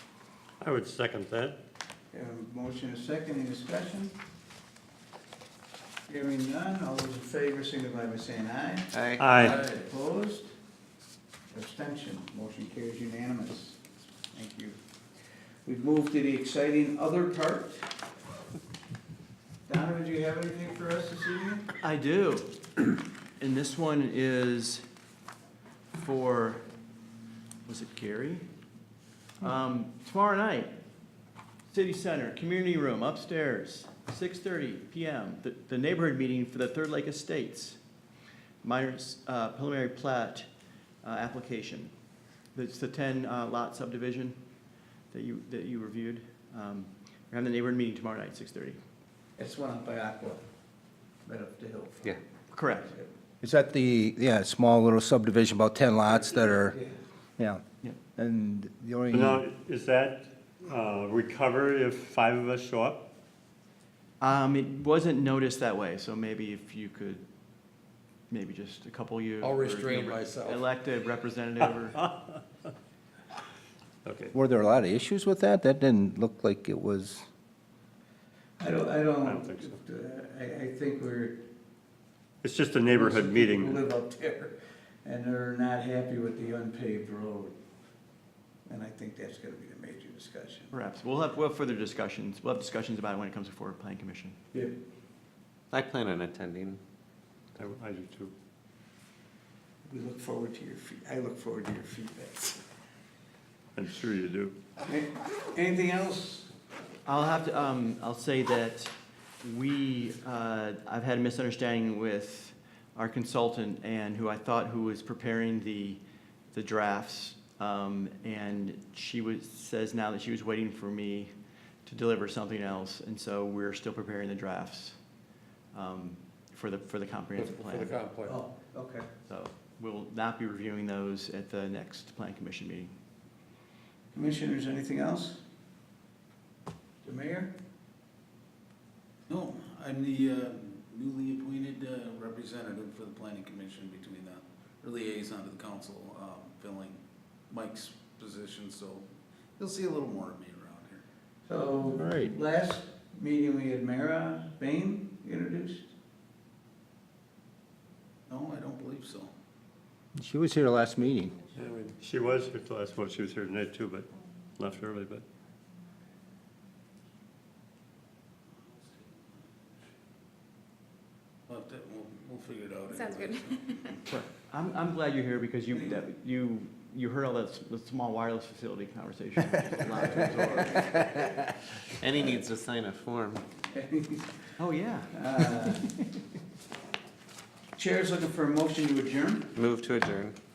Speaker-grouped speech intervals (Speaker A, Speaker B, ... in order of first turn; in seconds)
Speaker A: 0.6-1.6, 9.2-9.6, 59.1-63.1, 74.0-74.3, 79.2-79.8, 82.4-83.8, 97.6-98.3, 103.7-104.5, 161.5-165.2
Speaker B: 2.1-4.1, 6.1-10.5, 11.5-14.8, 15.6-17.9, 19.7-21.6, 49.4-50.4, 51.2-52.2, 56.6-56.9, 78.6-81.4, 82.9-87.5, 88.7-90.7, 99.8-102.6, 104.8-106.5, 128.2-129.1, 134.1-135.4, 137.0-137.5, 151.5-155.9, 183.7-184.5, 185.1-185.9, 187.8-189.5
Speaker C: 8.9-9.6, 95.7-96.8, 182.0-183.4, 189.5-190.3
Speaker D: 21.8-22.8, 23.4-24.8, 25.9-26.6, 27.6-28.4, 29.4-30.7, 31.7-37.8, 38.6-40.5, 41.0-41.9, 42.5-44.4, 45.1-48.8, 52.5-52.9, 64.2-67.2, 68.3-72.0, 90.7-94.4, 107.0-121.3, 121.8-125.0, 125.7-128.0, 129.3-132.9, 174.1-180.9, 184.6-185.2
Speaker E: 53.4-56.8, 57.4-57.6, 58.1-59.4, 74.3-77.2, 151.9-152.3, 160.2-161.4
Speaker F: 69.4-70.6, 127.4-128.4
Speaker G: 139.3-151.0, 158.3-159.3, 168.7-169.1, 171.5-174.0